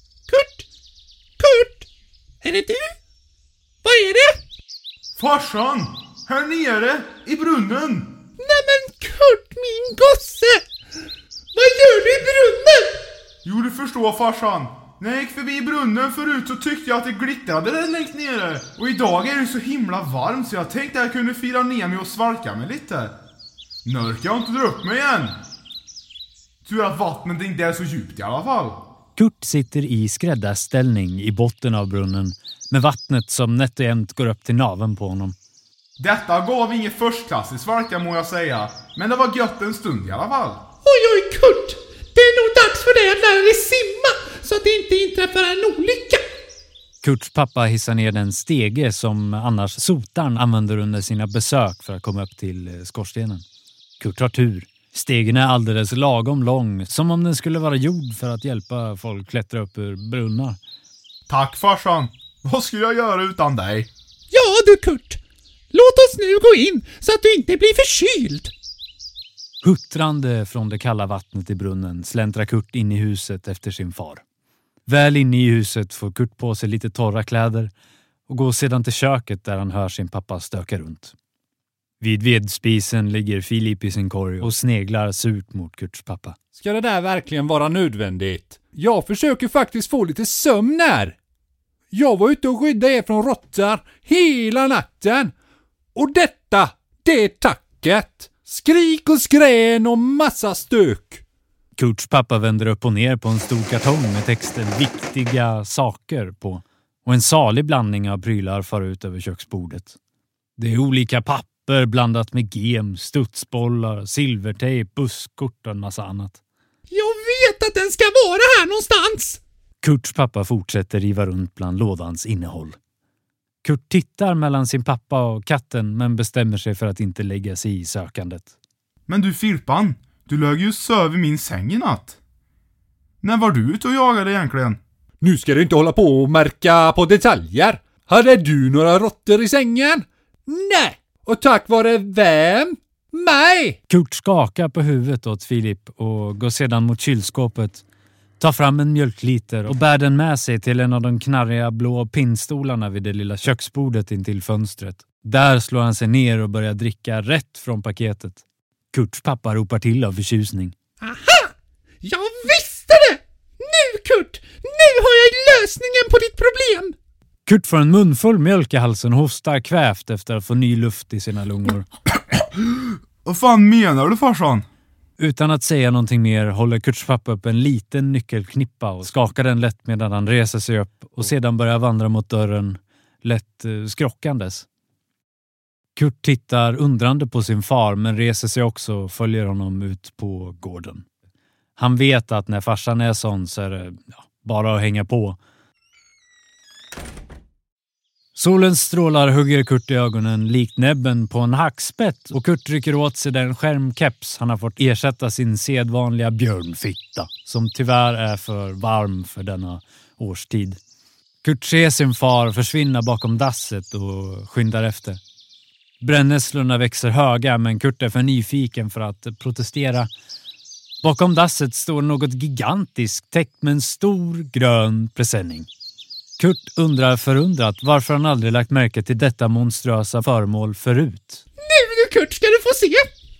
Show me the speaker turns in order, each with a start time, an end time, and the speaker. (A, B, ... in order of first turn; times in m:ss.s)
0:00.3-0:00.7 A
0:01.4-0:01.9 A
0:02.4-0:02.9 A
0:03.8-0:04.4 A
0:05.2-0:08.1 B
0:08.4-0:10.6 A
0:11.6-0:13.0 A
0:13.4-0:23.1 B
0:23.8-0:25.4 B
0:26.6-0:28.8 B
0:29.2-0:35.4 C
0:36.0-0:40.6 B
0:40.8-0:46.2 A
0:47.0-0:53.4 C
0:54.0-1:00.6 C
1:01.3-1:03.9 B
1:04.3-1:05.2 A
1:05.7-1:08.5 A
1:09.6-1:14.2 C
1:14.9-1:17.7 C
1:18.3-1:21.1 C
1:22.0-1:26.4 C
1:26.6-1:31.1 D
1:31.9-1:35.3 D
1:36.0-1:41.2 D
1:41.8-1:50.0 C
1:50.6-1:56.4 C
1:56.9-1:59.4 A
1:59.8-2:02.8 C
2:03.6-2:08.5 C
2:09.1-2:12.2 B
2:13.2-2:14.8 B
2:15.2-2:23.8 D
2:23.9-2:27.8 C
2:28.4-2:40.8 C
2:41.0-2:46.9 A
2:47.4-2:51.9 C
2:53.2-2:54.6 B
2:55.2-3:04.7 C
3:06.0-3:11.1 C
3:11.8-3:15.4 C
3:18.4-3:30.8 C
3:31.4-3:35.2 C
3:36.0-3:40.1 C
3:41.0-3:45.7 C
3:46.4-3:51.4 C
3:51.6-3:53.1 A